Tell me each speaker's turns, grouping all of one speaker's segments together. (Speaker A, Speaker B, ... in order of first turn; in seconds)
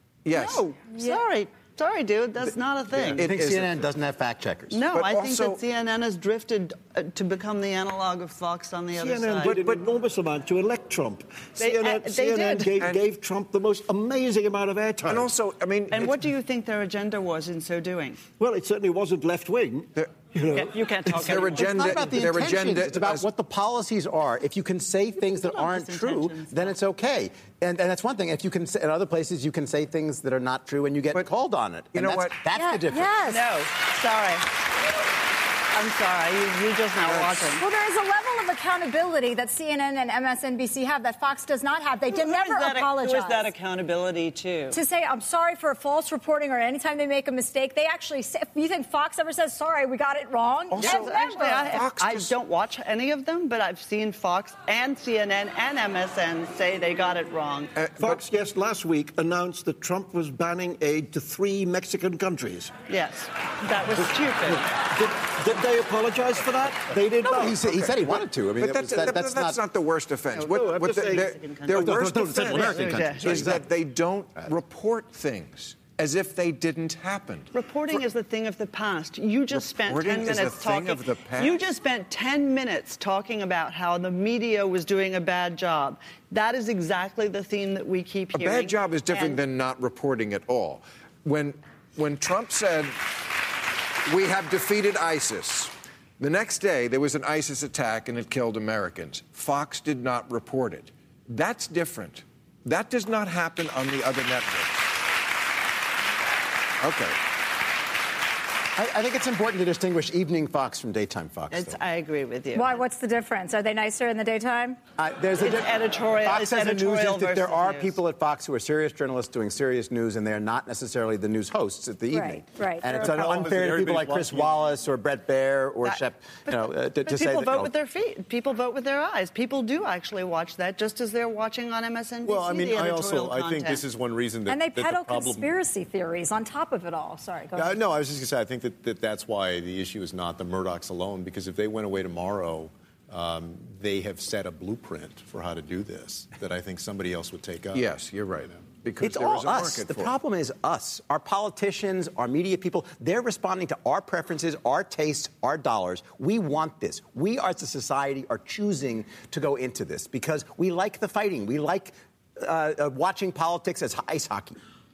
Speaker A: 0.2-0.7, 2.9-3.9, 4.9-5.6, 9.4-9.8, 12.8-13.0, 15.1-16.1, 21.1-23.3, 31.9-32.4, 37.0-37.4, 50.7-52.3, 57.7-58.2, 68.5-72.1, 73.2-77.5, 79.5-81.6, 88.3-93.0, 94.0-104.9, 106.8-107.2, 147.7-150.2
Speaker B: 0.3-3.3, 4.7-9.6, 11.6-12.7, 15.9-18.2, 20.5-22.1, 25.4-26.7, 33.2-34.5, 35.7-37.6, 42.0-44.8, 50.8-57.7, 62.9-64.6, 71.1-73.4, 77.5-89.4, 111.5-112.8, 115.4-118.0, 125.8-133.8
Speaker C: 3.1-4.9, 21.6-33.1, 67.3-69.6, 71.8-73.3, 108.8-111.8, 115.0-127.7, 149.0-164.6
Speaker D: 8.9-15.3, 18.4-20.7, 58.0-62.7, 64.5-67.7, 70.5-73.6
Speaker E: 32.6-33.3, 37.5-43.5, 44.7-51.7, 112.5-114.8, 122.1-123.1, 134.5-137.7
Speaker F: 122.8-124.6, 132.2-135.6, 137.5-147.9